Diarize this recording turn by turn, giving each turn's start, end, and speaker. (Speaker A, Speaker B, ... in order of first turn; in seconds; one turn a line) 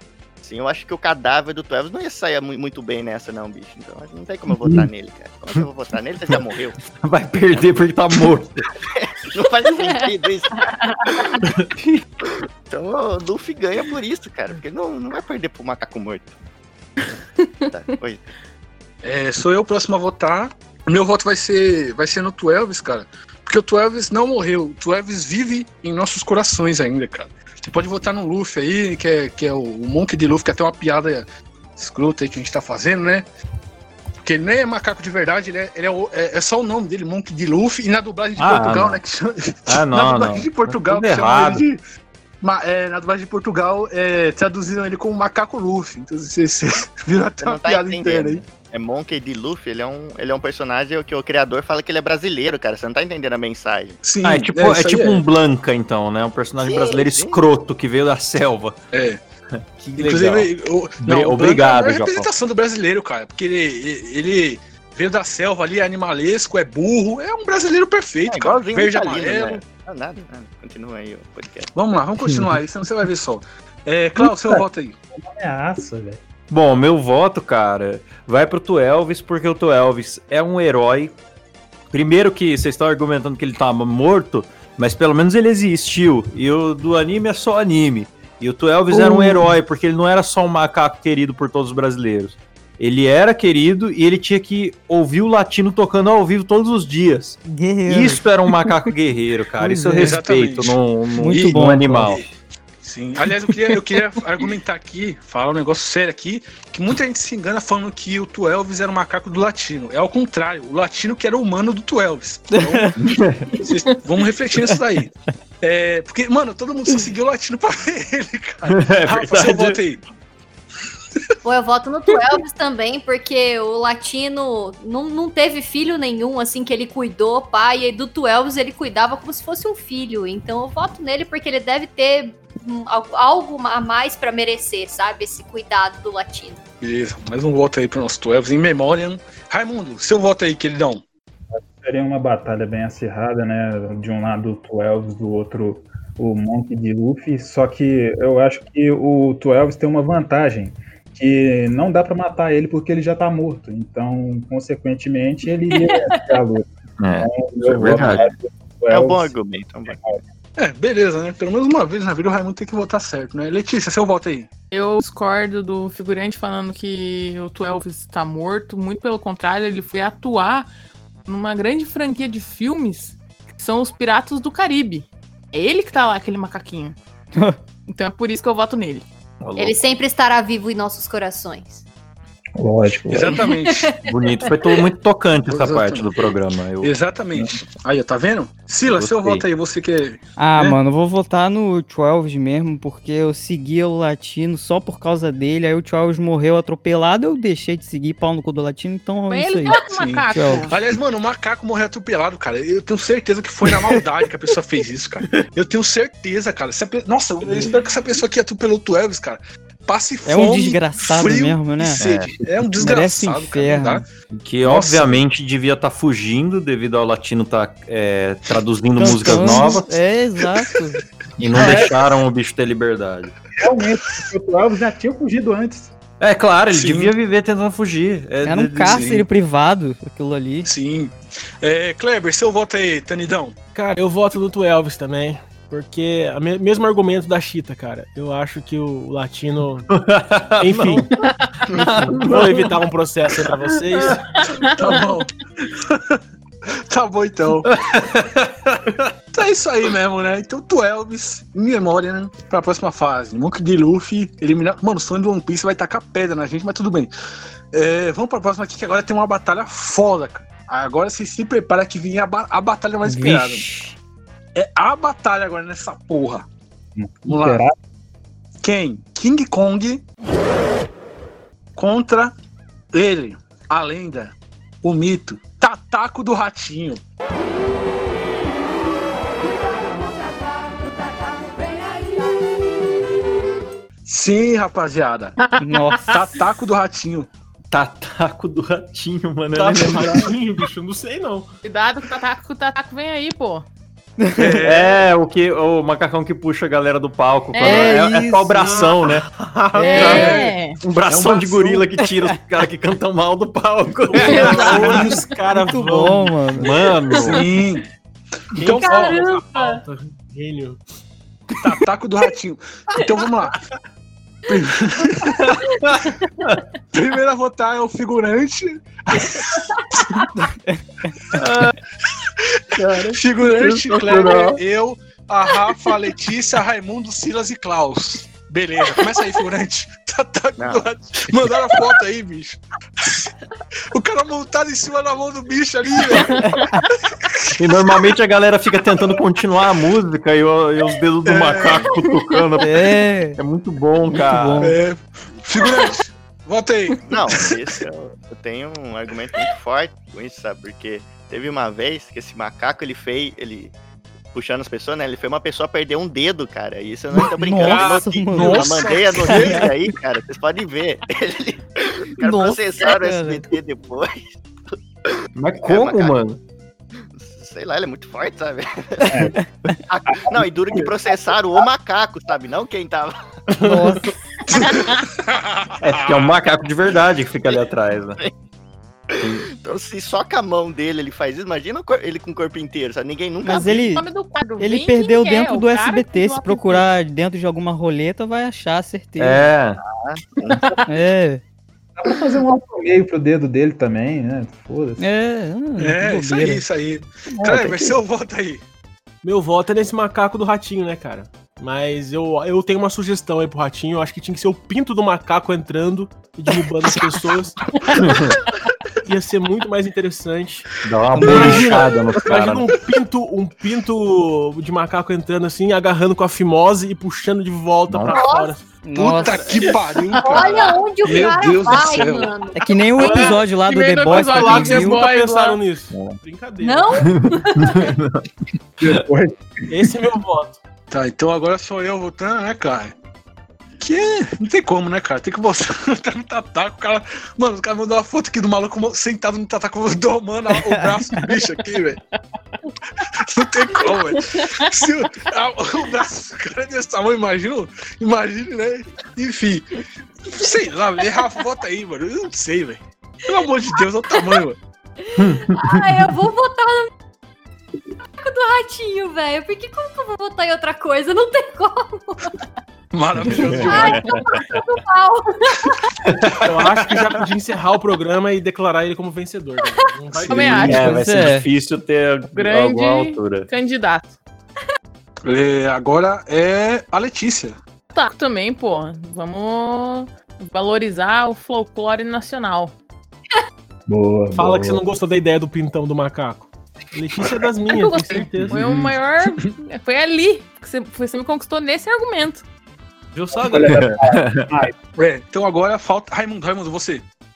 Speaker A: 0.4-6.8
Speaker B: 7.0-8.7
Speaker A: 8.9-11.4
Speaker A: 12.2-16.3
Speaker A: 17.7-18.3
Speaker C: 19.0-31.3
Speaker C: 31.8-33.3
Speaker C: 34.2-41.8
Speaker B: 38.4-39.0
Speaker B: 39.7-41.6
Speaker C: 42.4-48.4
Speaker A: 47.4-54.0
Speaker C: 54.0-55.2
Speaker B: 54.2-58.7
Speaker A: 56.6-57.4
Speaker C: 58.9-59.2
Speaker B: 59.8-60.5
Speaker C: 60.0-69.6
Speaker B: 61.0-62.3
Speaker A: 68.3-71.7
Speaker C: 71.7-75.0
Speaker D: 74.2-74.6
Speaker D: 75.1-76.2
Speaker B: 76.5-81.1
Speaker B: 81.9-102.2
Speaker E: 88.9-89.6
Speaker E: 97.5-98.9
Speaker E: 99.6-100.2
Speaker C: 100.0-102.2
Speaker E: 101.2-102.3
Speaker C: 102.8-112.9
Speaker E: 112.5-112.9
Speaker B: 113.0-113.5
Speaker C: 113.6-115.1
Speaker C: 115.6-120.0
Speaker B: 118.7-119.8
Speaker F: 121.5-136.6
Speaker C: 136.8-141.0
Speaker D: 141.5-156.7
Speaker B: 157.0-158.2
Speaker D: 157.2-159.3
Speaker A: 158.0-158.3
Speaker A: 158.9-160.0
Speaker D: 159.9-160.2
Speaker C: 160.6-164.5
Speaker G: 164.7-170.7
Speaker G: 171.3-176.9
Speaker G: 177.9-179.1
Speaker B: 179.4-179.8
Speaker F: 179.6-181.8
Speaker D: 182.6-183.3
Speaker C: 183.1-183.9
Speaker F: 183.3-184.1
Speaker B: 184.1-186.9
Speaker C: 185.5-186.1
Speaker C: 186.8-190.8
Speaker B: 188.9-189.4
Speaker E: 190.4-200.7
Speaker G: 199.3-200.7
Speaker C: 199.7-214.0
Speaker E: 210.2-214.0
Speaker B: 211.9-212.3
Speaker B: 214.3-220.0
Speaker C: 214.7-215.2
Speaker E: 218.9-221.0
Speaker B: 221.4-223.4
Speaker C: 221.5-221.9
Speaker D: 223.6-225.9
Speaker B: 226.2-229.1
Speaker C: 226.7-227.1
Speaker E: 228.4-230.7
Speaker C: 228.9-229.2
Speaker C: 230.6-233.6
Speaker H: 233.7-239.9
Speaker B: 239.9-241.1
Speaker H: 240.6-241.1
Speaker B: 241.9-242.7
Speaker H: 242.1-244.3
Speaker G: 244.6-245.1
Speaker C: 244.7-246.2
Speaker C: 246.9-247.7
Speaker B: 247.7-248.5
Speaker C: 249.3-257.1
Speaker C: 257.7-263.6
Speaker E: 263.0-263.9
Speaker C: 264.6-266.4
Speaker D: 267.0-267.7
Speaker C: 267.3-267.6
Speaker C: 268.6-270.0
Speaker C: 271.8-272.4
Speaker C: 272.9-277.0
Speaker C: 284.1-285.4
Speaker G: 285.4-286.1
Speaker E: 285.6-286.2
Speaker C: 286.1-287.3
Speaker B: 287.7-290.3
Speaker H: 289.5-291.5
Speaker G: 291.6-293.6
Speaker E: 294.2-294.7
Speaker C: 294.4-295.0
Speaker B: 294.6-299.3
Speaker G: 297.5-298.0
Speaker E: 297.6-298.8
Speaker H: 298.5-300.5
Speaker E: 299.8-300.4
Speaker G: 299.8-300.8
Speaker B: 299.9-305.2
Speaker C: 300.1-300.4
Speaker C: 301.1-301.9
Speaker E: 302.0-302.4
Speaker H: 304.1-306.6
Speaker G: 304.3-304.6
Speaker E: 304.3-306.7
Speaker B: 306.6-307.5
Speaker C: 307.1-307.9
Speaker H: 308.6-310.8
Speaker C: 308.6-309.3
Speaker G: 308.7-309.8
Speaker C: 311.6-313.6
Speaker C: 314.5-315.5
Speaker B: 315.4-316.0
Speaker C: 316.9-319.6
Speaker B: 321.4-321.7
Speaker C: 322.4-333.2
Speaker B: 322.8-324.6
Speaker A: 330.6-330.9
Speaker C: 333.9-336.4
Speaker G: 336.3-336.6
Speaker E: 336.5-336.8
Speaker C: 337.1-338.1
Speaker B: 337.6-344.7
Speaker C: 341.3-342.0
Speaker E: 342.6-343.4
Speaker E: 344.1-344.8
Speaker C: 344.6-347.4
Speaker A: 347.1-353.7
Speaker A: 354.3-364.8
Speaker E: 357.1-359.7
Speaker H: 357.7-358.0
Speaker C: 358.3-359.7
Speaker E: 362.2-363.5
Speaker B: 365.4-366.4
Speaker A: 365.6-366.2
Speaker A: 367.0-369.3
Speaker A: 369.9-373.1
Speaker D: 370.3-370.9
Speaker H: 373.6-374.0
Speaker E: 373.6-374.1
Speaker C: 374.5-376.3
Speaker G: 374.6-374.9
Speaker B: 375.8-378.2
Speaker A: 379.1-383.9
Speaker B: 379.2-379.4
Speaker E: 383.4-384.1
Speaker G: 383.5-386.9
Speaker E: 384.6-389.4
Speaker B: 389.2-389.8
Speaker A: 390.0-390.6
Speaker E: 390.9-391.4
Speaker D: 392.0-395.0
Speaker E: 395.0-396.6
Speaker C: 395.8-398.6
Speaker E: 397.3-397.9
Speaker H: 399.2-407.6
Speaker B: 408.0-408.4
Speaker H: 409.1-410.7
Speaker B: 410.8-412.8
Speaker E: 411.1-411.8
Speaker H: 411.2-418.7
Speaker B: 417.9-418.2
Speaker F: 418.1-418.6
Speaker E: 418.8-419.9
Speaker C: 418.9-422.3
Speaker G: 420.2-420.8
Speaker F: 420.2-422.9
Speaker E: 422.5-425.1
Speaker H: 423.0-423.4
Speaker G: 423.0-425.6
Speaker H: 424.1-427.1
Speaker B: 425.9-426.2
Speaker F: 426.6-427.9
Speaker B: 426.9-428.3
Speaker D: 428.8-429.4
Speaker H: 429.7-430.6
Speaker C: 430.9-432.9
Speaker C: 433.8-442.0
Speaker C: 443.1-449.7
Speaker C: 450.3-454.6
Speaker B: 455.2-455.7
Speaker F: 455.4-456.9
Speaker F: 458.2-462.3
Speaker C: 462.9-464.0
Speaker B: 463.3-464.3
Speaker F: 463.6-465.7
Speaker B: 466.1-466.4
Speaker H: 466.4-470.9
Speaker C: 466.6-467.1
Speaker F: 469.6-469.9
Speaker C: 470.2-470.7
Speaker G: 470.3-470.9
Speaker E: 470.5-471.5
Speaker B: 470.6-473.5
Speaker G: 472.3-474.1
Speaker C: 475.2-477.6
Speaker G: 477.9-482.7
Speaker D: 483.9-484.8
Speaker H: 484.4-488.6
Speaker G: 487.7-492.4
Speaker D: 488.5-488.9
Speaker H: 493.1-493.8
Speaker D: 493.3-494.7
Speaker B: 493.6-494.5
Speaker C: 494.9-497.0